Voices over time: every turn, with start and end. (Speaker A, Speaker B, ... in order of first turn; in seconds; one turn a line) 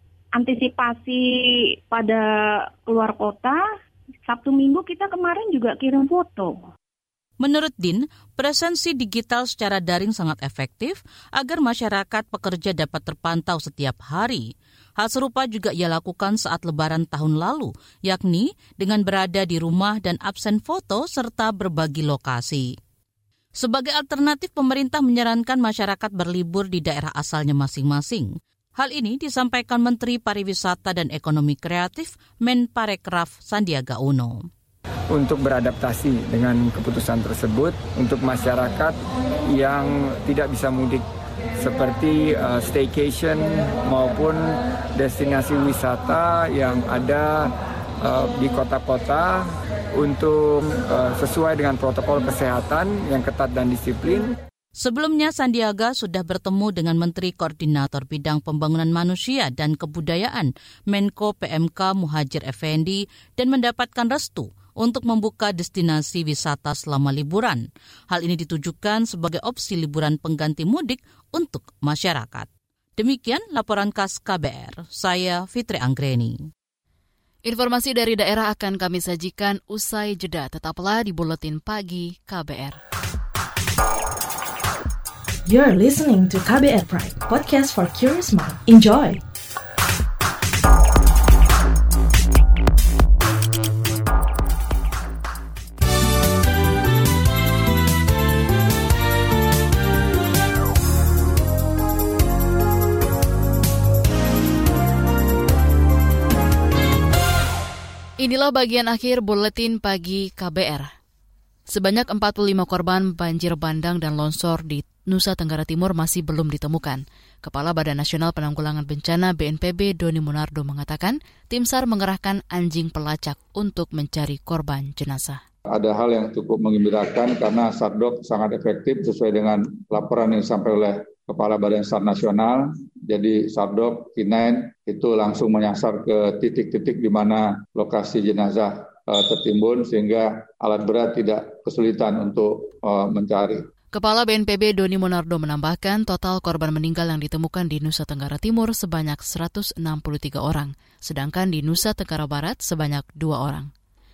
Speaker A: 0.4-1.3
Speaker A: 1.9-3.6
Speaker A: 4.3-6.6
Speaker B: 7.4-22.7
Speaker B: 23.6-34.5
Speaker C: 35.1-39.0
Speaker C: 39.5-41.0
Speaker C: 41.6-47.5
Speaker C: 48.0-54.4
Speaker B: 54.8-76.4
Speaker D: 77.5-82.8
Speaker E: 85.5-89.2
Speaker D: 108.2-110.9
Speaker D: 111.7-125.4
Speaker F: 125.7-143.6
Speaker D: 143.9-153.7